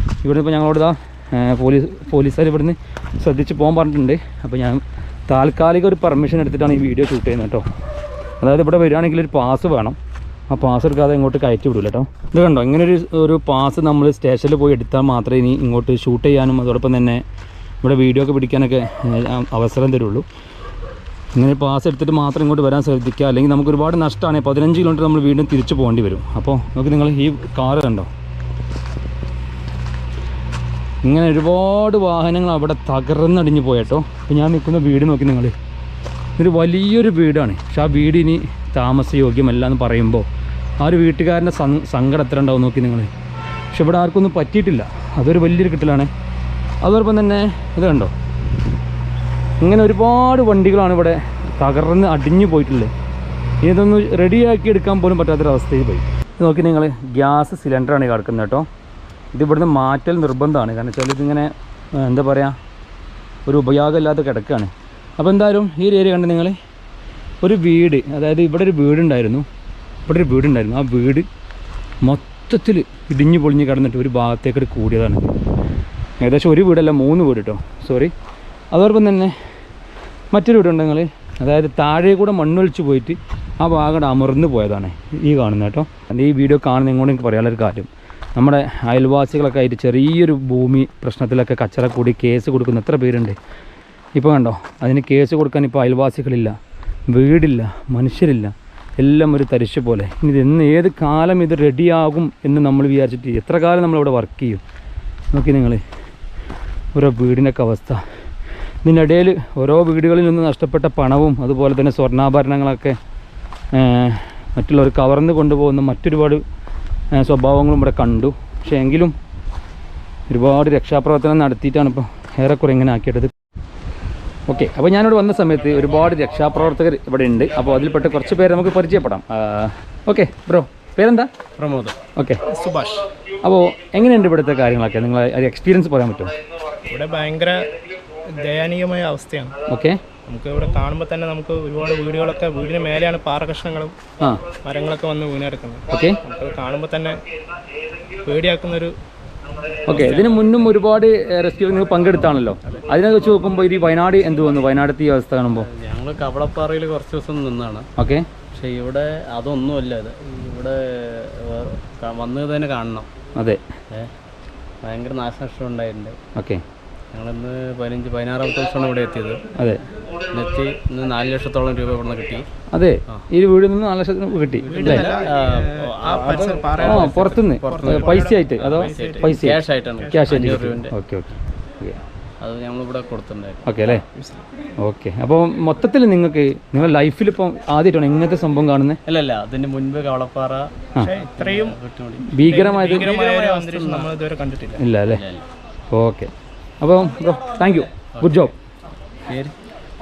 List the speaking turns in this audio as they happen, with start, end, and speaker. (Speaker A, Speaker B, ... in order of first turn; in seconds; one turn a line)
Speaker A: 0.2-7.6
Speaker A: 8.4-10.0
Speaker A: 10.5-17.2
Speaker A: 17.8-20.2
Speaker A: 21.3-28.1
Speaker A: 31.0-35.5
Speaker A: 36.4-40.2
Speaker A: 40.8-43.1
Speaker A: 43.7-46.1
Speaker A: 46.8-48.1
Speaker A: 49.6-52.9
Speaker A: 53.6-58.6
Speaker A: 59.3-62.5
Speaker A: 63.5-66.5
Speaker A: 67.4-69.4
Speaker A: 70.1-71.2
Speaker A: 72.0-75.3
Speaker A: 76.2-78.1
Speaker A: 78.7-79.3
Speaker A: 80.3-93.3
Speaker A: 94.2-96.5
Speaker A: 97.1-104.6
Speaker A: 105.3-105.8
Speaker A: 106.9-108.0
Speaker A: 108.8-113.0
Speaker A: 113.7-116.4
Speaker A: 117.1-119.1
Speaker A: 120.3-123.3
Speaker A: 124.5-131.3
Speaker B: 131.6-131.9
Speaker A: 132.2-132.4
Speaker C: 132.4-133.1
Speaker A: 133.4-136.3
Speaker C: 136.9-137.6
Speaker C: 138.2-139.5
Speaker A: 139.7-140.0
Speaker C: 140.2-144.0
Speaker A: 144.2-144.4
Speaker C: 144.6-147.2
Speaker A: 145.9-146.2
Speaker C: 148.2-148.9
Speaker A: 149.9-155.7
Speaker C: 149.9-150.6
Speaker B: 155.6-157.9
Speaker A: 158.0-158.2
Speaker B: 158.5-163.1
Speaker A: 163.4-163.6
Speaker B: 164.8-166.2
Speaker A: 166.3-166.6
Speaker B: 167.1-169.4
Speaker A: 169.5-169.8
Speaker B: 170.3-172.4
Speaker A: 172.7-175.1
Speaker C: 174.7-179.3
Speaker B: 174.7-180.9
Speaker A: 176.8-182.0
Speaker C: 180.0-180.3
Speaker B: 182.4-183.9
Speaker A: 183.7-184.0
Speaker C: 184.1-184.4
Speaker A: 184.8-189.0
Speaker B: 189.1-194.1
Speaker C: 191.0-191.8
Speaker A: 192.2-193.1
Speaker C: 192.4-194.8
Speaker A: 194.8-195.2
Speaker B: 195.1-195.4
Speaker A: 195.9-196.3
Speaker A: 196.8-198.6
Speaker B: 199.3-199.6